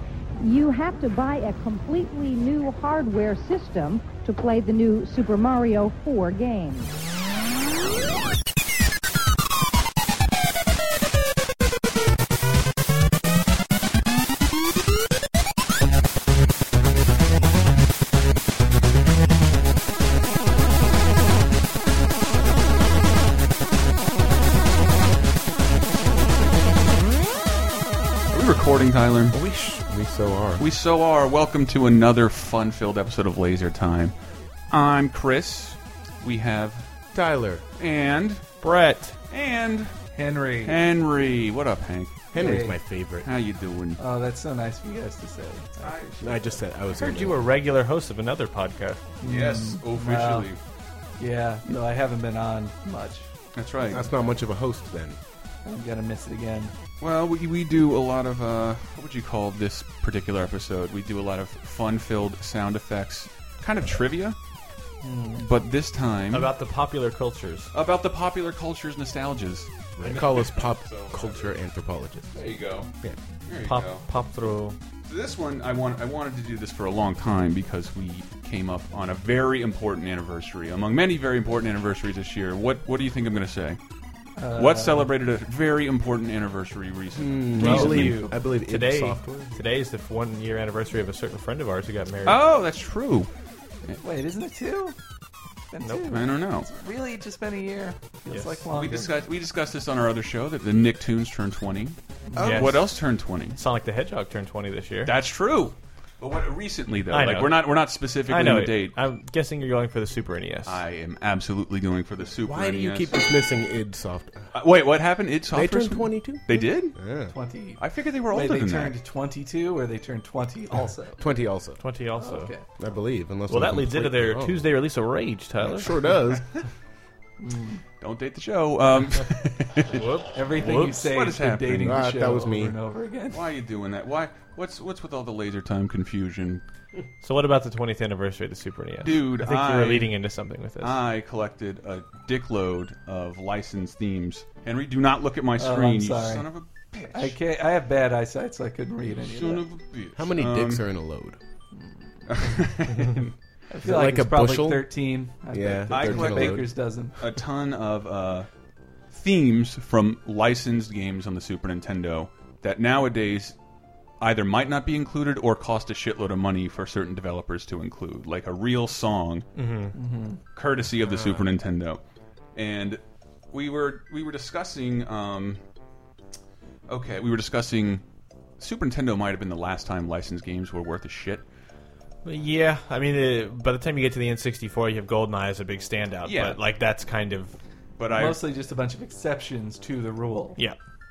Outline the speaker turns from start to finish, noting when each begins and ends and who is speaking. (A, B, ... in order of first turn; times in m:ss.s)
0:00.4-0:06.9 A
0:28.3-0:29.4 B
0:29.3-0:30.7 C
0:30.6-0:34.2 B
0:34.7-0:36.9 B
0:37.1-0:37.6 C
0:37.8-0:38.5 B
0:38.6-0:39.2 D
0:39.3-0:39.9 B
0:40.2-0:40.8 E
0:40.6-0:42.2 B
0:42.3-0:43.3 C
0:42.4-0:42.8 E
0:43.2-0:44.0 B
0:44.0-0:46.4 E
0:45.8-0:46.1 B
0:46.2-0:47.4 C
0:46.9-0:49.0 D
0:49.2-0:50.5 E
0:49.2-0:50.6 B
0:51.2-0:53.3 E
0:53.6-0:54.0 B
0:53.9-0:55.2 C
0:55.6-0:56.8 E
0:57.0-1:04.4 B
1:05.0-1:05.5 E
1:05.4-1:06.5 B
1:06.3-1:07.7 D
1:07.7-1:11.5 B
1:10.0-1:12.4 C
1:12.3-1:12.9 B
1:13.5-1:14.0 B
1:13.6-1:14.8 D
1:15.1-1:23.8 B
1:24.4-1:25.1 E
1:24.5-1:28.2 B
1:27.2-1:29.6 C
1:27.6-1:32.4 D
1:27.6-1:28.3 E
1:32.2-1:33.3 B
1:34.0-1:35.0 E
1:35.7-1:39.1 E
1:36.1-1:36.7 B
1:38.3-1:38.6 D
1:38.7-1:43.6 B
1:42.3-1:42.7 E
1:42.4-1:42.8 D
1:43.6-1:45.2 D
1:45.1-1:49.0 B
1:47.1-1:47.8 D
1:48.3-1:50.8 D
1:50.7-1:53.2 B
1:52.4-1:54.5 C
1:54.5-1:57.0 B
1:55.5-1:57.3 C
1:57.3-2:01.2 E
1:57.8-1:59.0 B
2:01.2-2:01.8 C
2:01.8-2:02.5 D
2:02.2-2:02.6 E
2:02.8-2:04.7 C
2:03.5-2:05.9 D
2:05.6-2:06.5 C
2:07.4-2:07.8 E
2:08.0-2:10.0 B
2:09.9-2:10.9 D
2:10.4-2:13.4 E
2:10.6-2:12.0 B
2:11.8-2:12.8 C
2:13.3-2:16.6 B
2:17.2-2:21.0 D
2:19.0-2:20.1 B
2:20.8-2:27.4 B
2:25.6-2:26.5 E
2:27.1-2:29.6 E
2:29.2-2:30.8 B
2:30.2-2:31.4 C
2:32.3-2:33.3 B
2:33.7-2:37.2 E
2:33.8-2:34.9 C
2:35.5-2:36.7 C
2:35.9-2:38.5 B
2:39.1-2:43.6 B
2:44.2-2:49.5 B
2:49.6-2:50.0 D
2:50.0-2:50.4 E
2:50.6-2:52.0 B
2:51.0-2:51.5 C
2:52.6-2:53.0 B
2:53.5-2:55.6 B
2:56.9-2:58.0 B
2:58.6-3:01.5 B
3:02.2-3:07.6 D
3:06.2-3:06.6 B
3:08.0-3:08.4 B
3:08.1-3:10.6 E